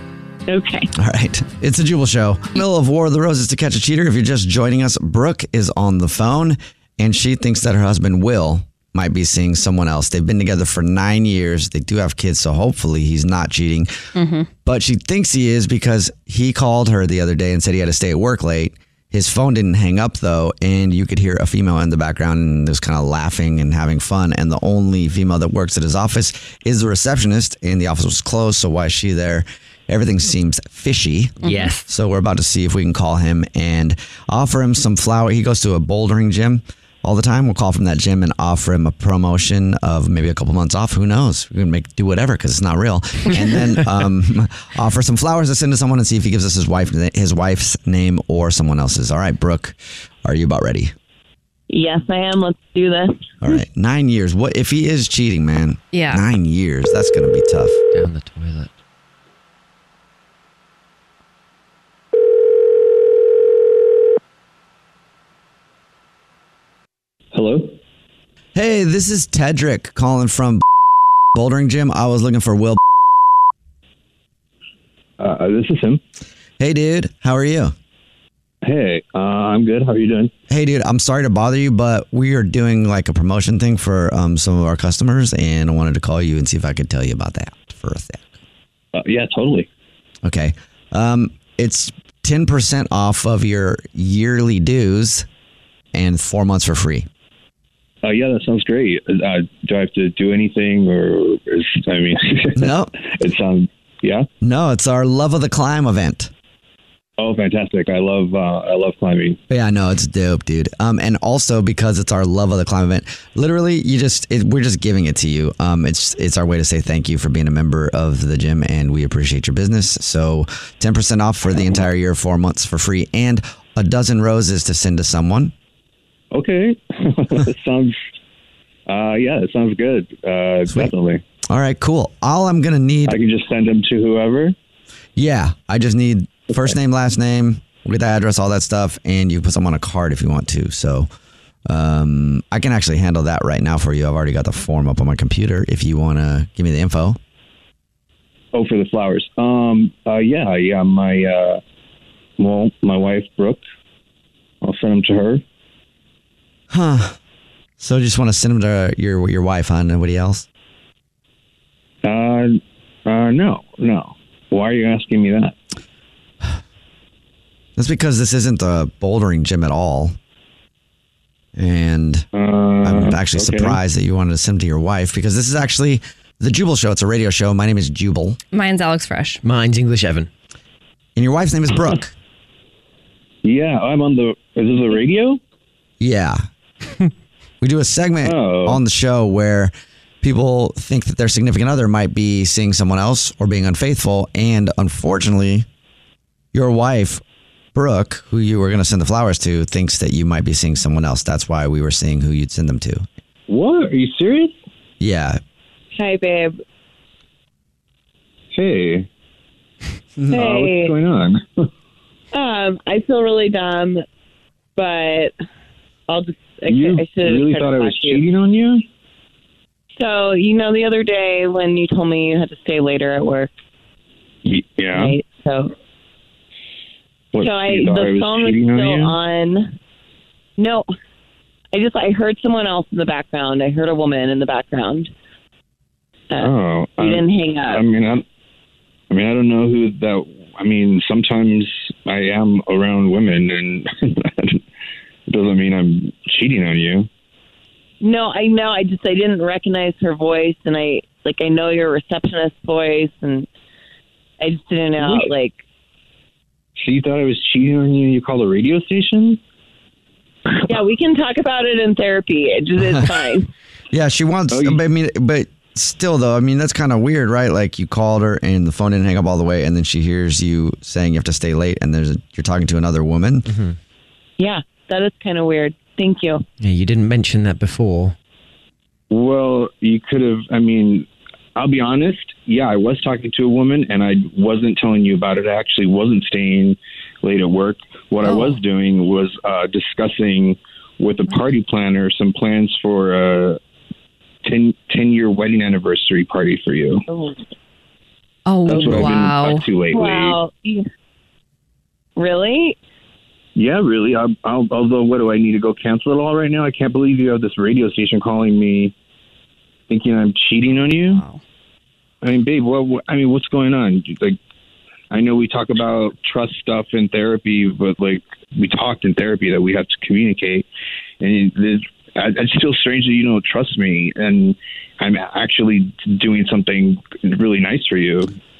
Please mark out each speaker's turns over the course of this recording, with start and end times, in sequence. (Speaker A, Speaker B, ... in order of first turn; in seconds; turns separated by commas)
Speaker A: 0.5-0.9, Speaker B: 0.9-13.9, Speaker C: 14.2-14.5, Speaker B: 14.7-50.9, Speaker C: 31.4-31.8, Speaker A: 51.7-53.2, Speaker B: 53.4-57.8, Speaker C: 55.9-56.2, Speaker D: 57.9-58.7, Speaker E: 67.3-67.8, Speaker B: 68.5-70.6, Speaker B: 71.3-72.8, Speaker E: 75.2-76.0, Speaker B: 76.6-77.7, Speaker E: 78.6-80.3, Speaker B: 80.5-88.3, Speaker E: 89.0-89.7, Speaker B: 90.2-95.3, Speaker B: 95.9-97.1, Speaker E: 98.0-104.3, Speaker B: 102.6-102.9, Speaker B: 104.4-106.3, Speaker E: 107.2-109.4, Speaker B: 109.5-125.5, Speaker E: 126.3-128.0, Speaker E: 128.9-131.2, Speaker B: 131.5-133.2, Speaker E: 133.1-134.6, Speaker B: 135.2-141.1, Speaker B: 141.7-147.2, Speaker E: 148.5-151.6, Speaker E: 152.4-153.6, Speaker E: 154.6-155.4, Speaker B: 156.7-157.2, Speaker B: 157.8-160.5, Speaker E: 162.0-165.6, Speaker B: 167.8-170.2, Speaker B: 171.6-172.3, Speaker E: 172.3-173.8, Speaker B: 172.8-178.4, Speaker C: 178.5-179.4, Speaker D: 179.4-180.3, Speaker B: 181.2-182.1, Speaker E: 183.4-185.4, Speaker B: 186.0-186.4, Speaker B: 187.6-195.7, Speaker E: 188.2-188.8, Speaker B: 196.5-197.2, Speaker B: 197.7-203.1, Speaker E: 203.5-204.5, Speaker B: 205.0-205.4, Speaker A: 206.0-206.6, Speaker E: 208.5-209.1, Speaker B: 210.2-210.4, Speaker E: 210.3-211.7, Speaker A: 210.3-210.9, Speaker A: 212.3-214.0, Speaker A: 214.8-215.3, Speaker A: 216.1-218.2, Speaker E: 216.7-218.8, Speaker A: 220.0-223.5, Speaker E: 224.4-225.2, Speaker A: 224.9-225.7, Speaker E: 227.3-229.2, Speaker A: 227.4-229.7, Speaker A: 230.6-230.9, Speaker A: 231.7-235.1, Speaker A: 236.3-237.8, Speaker E: 236.4-238.2, Speaker E: 239.1-244.6, Speaker E: 245.3-247.1, Speaker A: 248.0-253.5, Speaker A: 254.4-255.6, Speaker E: 255.0-255.3, Speaker E: 256.8-259.4, Speaker A: 260.7-263.5, Speaker B: 263.9-273.5, Speaker E: 264.5-264.8, Speaker D: 273.5-273.8, Speaker A: 274.4-276.4, Speaker D: 276.6-278.1, Speaker E: 279.1-293.6, Speaker C: 288.2-288.6, Speaker E: 294.4-297.1, Speaker C: 298.5-299.6, Speaker E: 298.7-300.4, Speaker A: 299.9-300.8, Speaker A: 302.2-302.8, Speaker E: 303.6-308.9, Speaker E: 309.9-311.2, Speaker C: 310.7-311.4, Speaker E: 312.2-314.4, Speaker E: 315.1-320.7, Speaker E: 321.2-328.3